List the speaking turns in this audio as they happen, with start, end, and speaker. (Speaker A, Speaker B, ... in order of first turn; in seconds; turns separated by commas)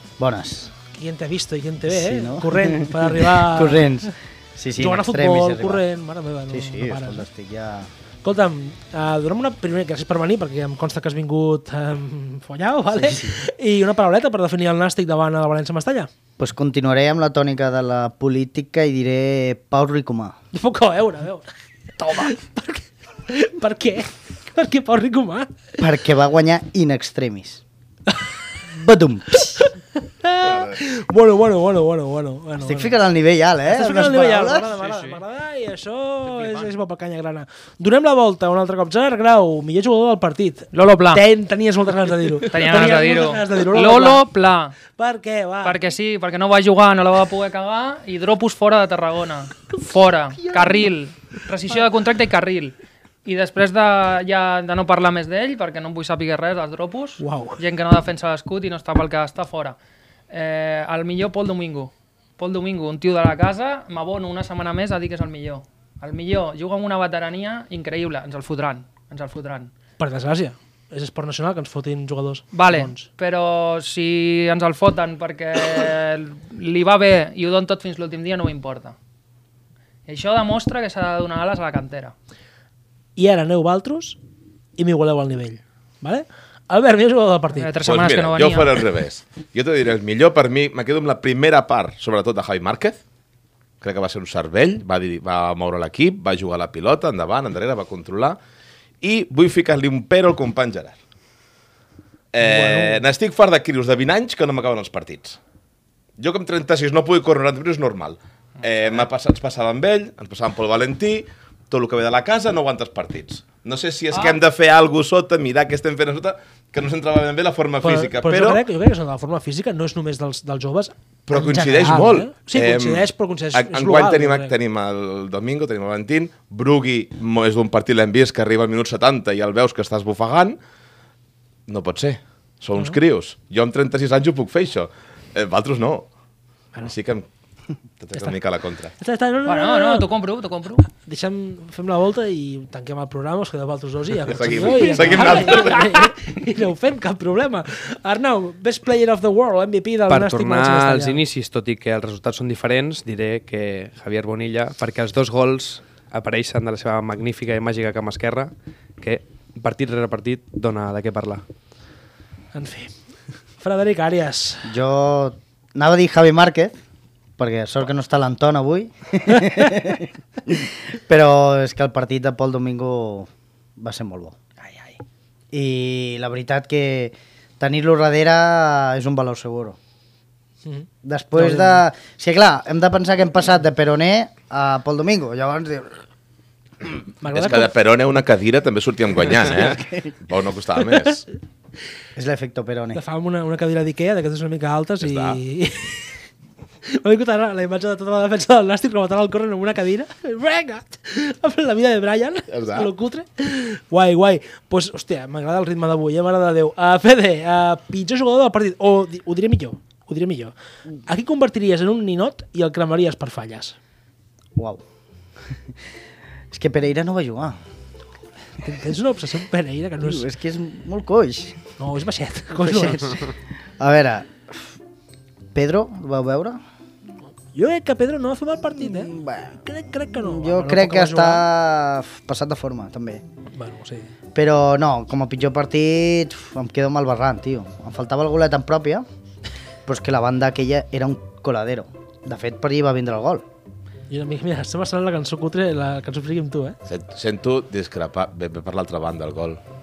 Speaker A: 0.2-0.7, Speaker B: 0.8-3.9, Speaker A: 1.9-5.8, Speaker B: 4.8-7.2, Speaker A: 6.5-7.9, Speaker B: 8.2-16.1, Speaker A: 12.9-13.4, Speaker A: 16.4-20.4, Speaker B: 20.5-21.5, Speaker B: 22.0-25.5, Speaker A: 22.0-22.3, Speaker A: 25.8-27.6, Speaker A: 28.7-29.7, Speaker B: 29.5-33.0, Speaker C: 30.5-30.7, Speaker A: 32.6-34.7, Speaker B: 33.7-44.2, Speaker D: 34.7-35.2, Speaker D: 36.3-36.7, Speaker D: 40.7-41.2, Speaker D: 42.4-44.8, Speaker B: 44.9-45.8, Speaker D: 45.6-59.8, Speaker B: 57.2-57.6, Speaker D: 60.3-69.7, Speaker B: 70.0-73.1, Speaker D: 72.5-79.0, Speaker D: 80.1-82.1, Speaker B: 83.2-84.2, Speaker B: 84.8-87.7, Speaker D: 87.5-88.8, Speaker C: 87.8-93.0, Speaker C: 93.8-98.4, Speaker C: 99.0-101.0, Speaker C: 102.3-105.4, Speaker B: 102.4-103.0, Speaker C: 106.2-118.6, Speaker D: 108.6-109.0, Speaker D: 114.1-114.4, Speaker B: 117.8-124.5, Speaker C: 121.3-130.6, Speaker C: 131.7-136.1, Speaker C: 136.8-137.3, Speaker C: 138.0-138.9, Speaker B: 139.0-140.1, Speaker D: 139.4-140.8, Speaker B: 140.8-151.2, Speaker C: 144.2-146.0, Speaker D: 144.8-145.7, Speaker E: 150.1-161.4, Speaker B: 162.5-162.9, Speaker B: 163.6-164.7, Speaker A: 164.7-166.8, Speaker A: 167.4-174.3, Speaker D: 174.6-175.0, Speaker A: 175.5-179.8, Speaker B: 180.6-181.8, Speaker A: 181.0-186.0, Speaker B: 187.2-187.7, Speaker C: 187.3-191.2, Speaker A: 189.3-190.1, Speaker A: 192.1-193.0, Speaker B: 192.9-196.1, Speaker C: 195.0-195.4, Speaker B: 196.9-210.5, Speaker C: 202.5-202.9, Speaker B: 211.0-213.8, Speaker A: 214.6-214.8, Speaker A: 216.5-217.6, Speaker B: 218.6-220.3, Speaker A: 220.0-221.6, Speaker B: 221.8-223.3, Speaker A: 222.6-223.2, Speaker A: 223.8-224.7, Speaker A: 225.5-226.6, Speaker B: 227.5-231.5, Speaker A: 228.8-229.6, Speaker A: 230.1-233.2, Speaker B: 233.5-234.1, Speaker A: 234.3-239.0, Speaker A: 239.8-243.4, Speaker B: 244.1-246.8, Speaker C: 246.9-249.6